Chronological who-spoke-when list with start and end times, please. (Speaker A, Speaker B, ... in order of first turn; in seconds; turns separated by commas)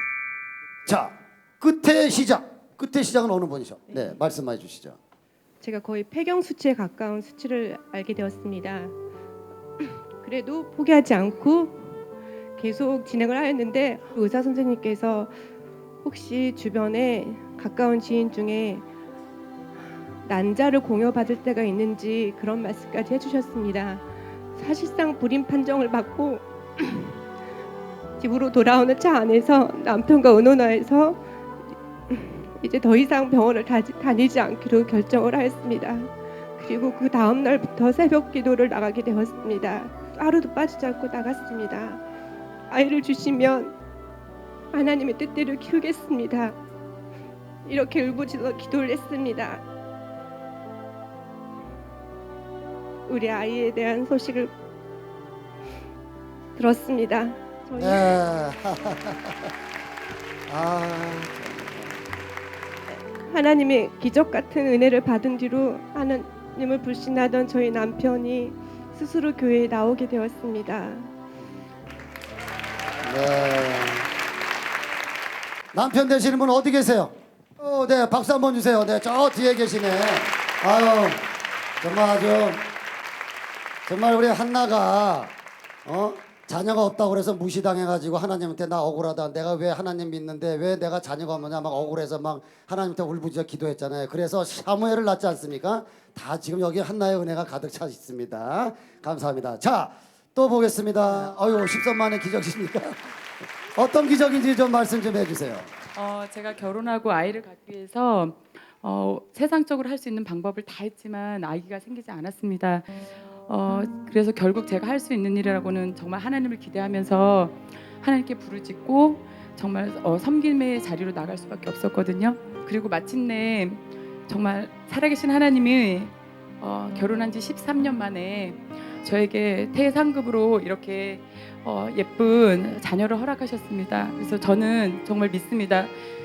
Speaker A: 0.9-5.0, Speaker B: 5.6-8.9, Speaker B: 10.2-11.9, Speaker B: 12.6-15.3, Speaker B: 16.0-18.9, Speaker B: 20.3-27.1, Speaker B: 28.2-31.2, Speaker B: 32.1-42.0, Speaker B: 42.7-43.7, Speaker B: 44.7-46.6, Speaker B: 47.6-49.6, Speaker B: 53.1-54.5, Speaker B: 56.6-58.2, Speaker A: 57.8-59.5, Speaker A: 60.5-62.0, Speaker B: 63.2-71.1, Speaker A: 73.0-74.1, Speaker A: 75.7-81.2, Speaker A: 81.8-82.6, Speaker A: 83.9-85.3, Speaker A: 85.9-103.0, Speaker A: 103.8-105.7, Speaker C: 106.0-135.9